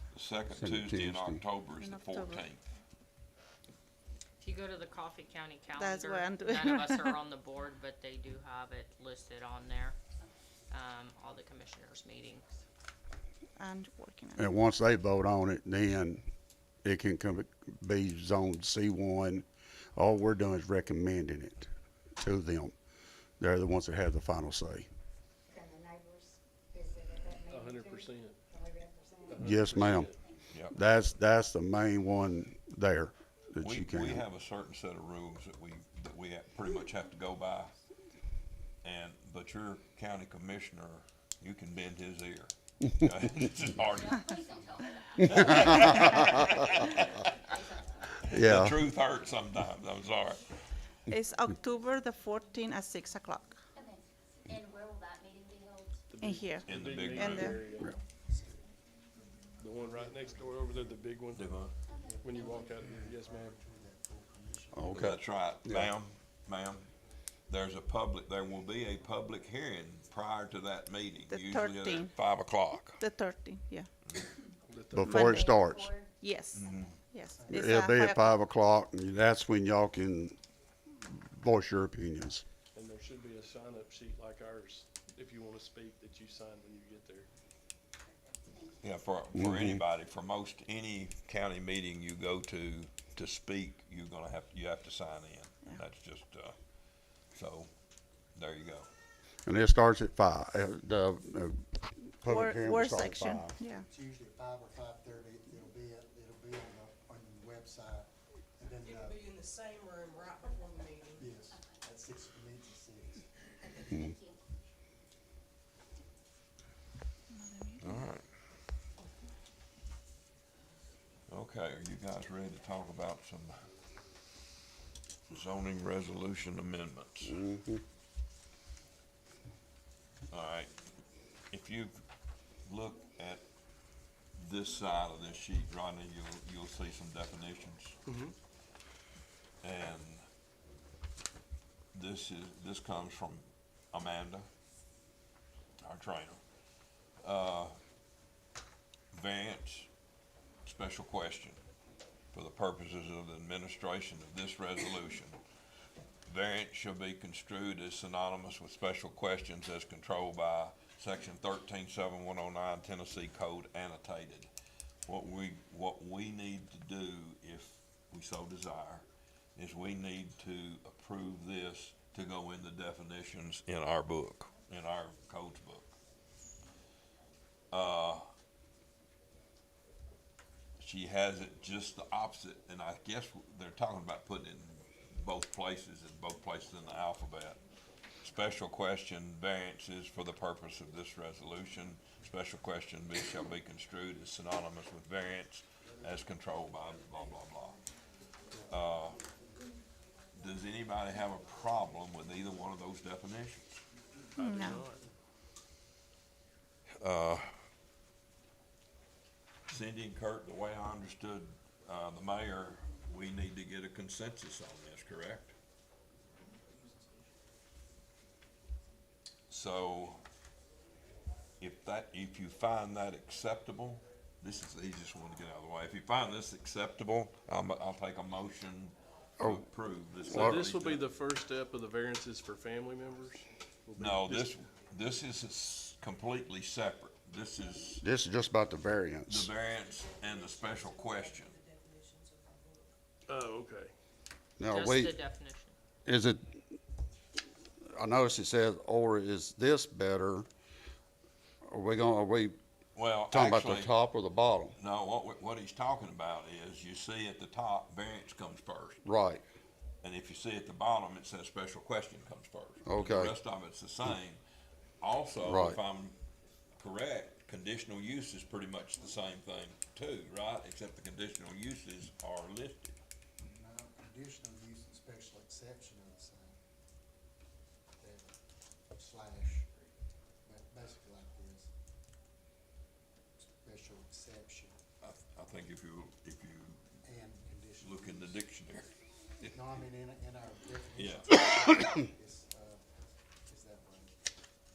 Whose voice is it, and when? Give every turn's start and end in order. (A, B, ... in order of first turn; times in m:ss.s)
0:00.1-0:02.6 A
0:00.6-0:01.4 B
0:01.8-0:02.4 C
0:04.4-0:10.0 D
0:05.8-0:07.2 C
0:10.7-0:12.6 D
0:13.6-0:14.4 C
0:14.4-0:16.2 B
0:16.8-0:21.7 B
0:22.2-0:22.7 B
0:23.4-0:24.9 B
0:25.5-0:30.1 E
0:27.5-0:28.2 F
0:29.3-0:29.8 F
0:29.4-0:30.2 B
0:30.5-0:30.8 A
0:30.7-0:34.2 B
0:33.6-0:37.8 A
0:38.8-0:44.4 A
0:43.8-0:45.8 G
0:45.2-0:47.3 A
0:45.3-0:46.3 B
0:47.5-0:47.8 G
0:48.3-0:50.5 A
0:48.3-0:48.9 B
0:51.1-0:53.6 C
0:53.8-0:56.0 G
0:56.2-0:57.9 F
0:56.2-0:57.6 C
0:56.6-0:57.6 A
0:59.2-1:01.0 H
0:59.6-1:01.3 F
1:01.3-1:01.8 A
1:01.9-1:02.9 G
1:02.0-1:05.2 H
1:02.3-1:03.6 F
1:04.7-1:05.9 B
1:04.9-1:06.9 A
1:07.5-1:13.0 A
1:11.3-1:12.2 C
1:13.0-1:13.9 C
1:14.9-1:15.9 B
1:14.9-1:16.1 G
1:15.0-1:15.5 C
1:16.2-1:18.4 C
1:16.5-1:17.0 A
1:17.3-1:17.7 H
1:17.5-1:20.4 B
1:21.0-1:22.4 B
1:22.8-1:27.3 F
1:28.8-1:36.6 A
1:29.4-1:29.8 B
1:37.3-1:37.7 A
1:38.4-1:38.9 A
1:39.5-1:41.6 B
1:42.2-1:43.6 B
1:42.3-1:43.9 C
1:43.7-1:49.2 H
1:48.9-1:51.2 I
1:51.2-1:53.9 H
1:51.5-1:51.8 G
1:54.0-1:54.4 G
1:57.3-1:58.1 C
1:57.8-1:58.3 A
2:01.3-2:03.6 A
2:05.3-2:07.4 A
2:07.2-2:07.8 B
2:10.3-2:10.7 A
2:11.5-2:12.0 A
2:12.6-2:13.4 A
2:14.4-2:18.0 A
2:19.6-2:20.3 A
2:21.9-2:24.5 A
2:25.8-2:26.4 A
2:27.2-2:27.8 A
2:29.1-2:29.9 A
2:30.6-2:31.6 A
2:32.3-2:35.4 A
2:36.3-2:44.5 A
2:45.1-2:56.0 A
2:57.7-2:58.3 A
3:00.8-3:07.6 A
3:08.2-3:17.8 A
3:18.6-3:19.2 A
3:20.4-3:23.8 A
3:24.4-3:24.8 C
3:24.4-3:25.0 F
3:27.0-3:27.5 A
3:29.7-3:35.6 A
3:39.5-3:40.2 A
3:41.6-3:51.0 A
3:50.3-3:50.6 B
3:50.5-3:54.5 F
3:54.0-3:58.0 A
3:58.0-3:59.5 B
3:59.3-4:01.6 A
3:59.8-4:02.9 I
4:03.3-4:03.7 F
4:04.6-4:05.2 B
4:04.7-4:05.7 D
4:06.1-4:06.6 B
4:07.8-4:10.5 B
4:11.7-4:12.6 B
4:13.0-4:14.0 A
4:13.3-4:14.8 B
4:14.8-4:19.0 A
4:19.0-4:19.4 B
4:20.0-4:24.4 A
4:22.9-4:23.3 B
4:25.0-4:26.2 A
4:25.4-4:25.8 B
4:26.8-4:32.9 A
4:33.4-4:36.6 H
4:38.0-4:38.4 H
4:38.9-4:39.7 H
4:40.4-4:41.7 H
4:43.4-4:44.8 H
4:45.0-4:46.8 A
4:47.0-4:48.4 H
4:47.8-4:48.9 A
4:49.5-4:52.8 H
4:51.0-4:51.9 A
4:53.5-4:54.2 H